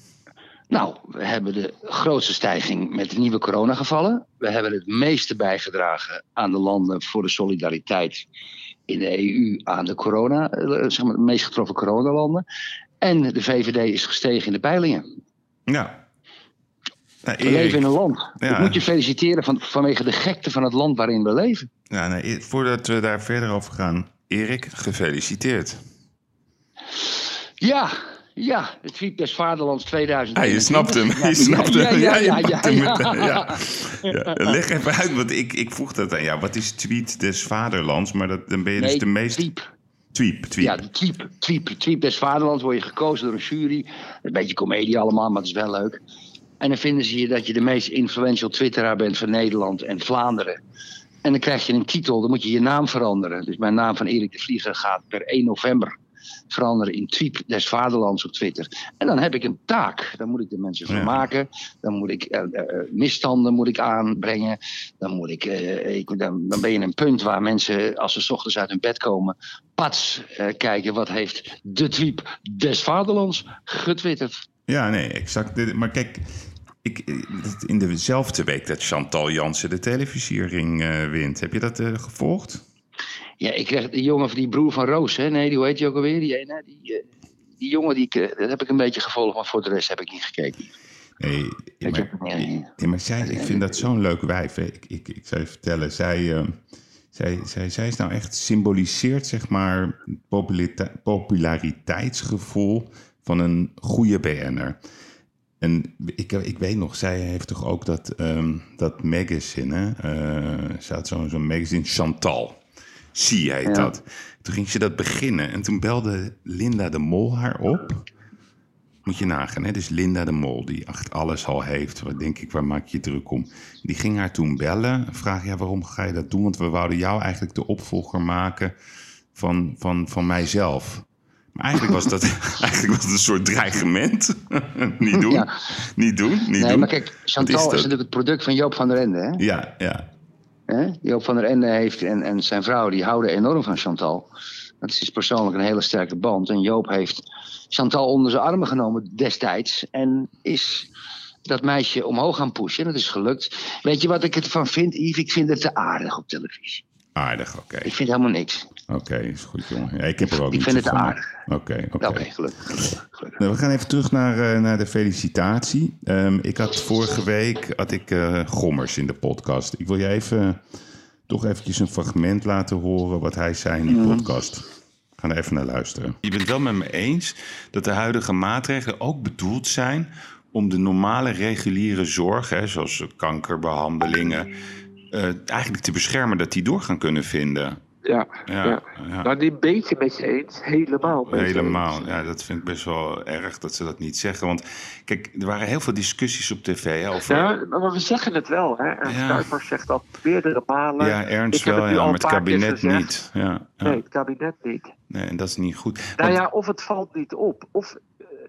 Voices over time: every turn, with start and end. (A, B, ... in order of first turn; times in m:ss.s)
0:00.7-0:08.3 A
0:08.9-0:12.4 A
0:13.0-0:15.0 A
0:15.7-0:16.0 B
0:17.2-0:18.8 B
0:17.4-0:21.7 A
0:21.9-0:25.8 B
0:27.6-0:33.6 A
0:30.4-0:39.5 B
0:38.8-0:39.7 A
0:40.1-0:40.8 B
0:40.6-0:46.0 A
0:46.6-0:50.6 A
0:51.2-0:56.0 A
0:56.5-1:14.4 A
1:00.9-1:01.2 B
1:14.7-1:22.6 B
1:23.4-1:27.1 A
1:27.6-1:30.7 A
1:31.2-1:36.6 B
1:31.8-1:32.7 A
1:33.2-1:33.7 A
1:37.1-1:44.8 B
1:45.6-1:52.6 B
1:53.1-1:58.0 B
1:53.6-1:53.9 A
1:59.0-2:08.8 B
2:09.4-2:17.9 B
2:15.1-2:15.5 A
2:16.6-2:19.4 A
2:19.4-2:20.1 B
2:20.7-2:24.3 A
2:24.8-2:30.9 A
2:31.5-2:36.8 A
2:37.2-2:37.9 B
2:37.8-2:38.7 A
2:38.9-2:42.3 B
2:40.2-2:41.3 A
2:42.0-2:43.4 A
2:43.4-2:50.6 B
2:51.3-2:54.6 B
2:53.9-2:54.3 A
2:55.2-3:04.5 B
3:05.1-3:07.8 B
3:08.0-3:12.0 C
3:08.5-3:09.3 B
3:11.3-3:17.5 B
3:17.3-3:23.1 C
3:19.1-3:19.5 B
3:21.0-3:24.0 B
3:23.8-3:24.9 C
3:25.1-3:26.4 B
3:26.2-3:28.0 C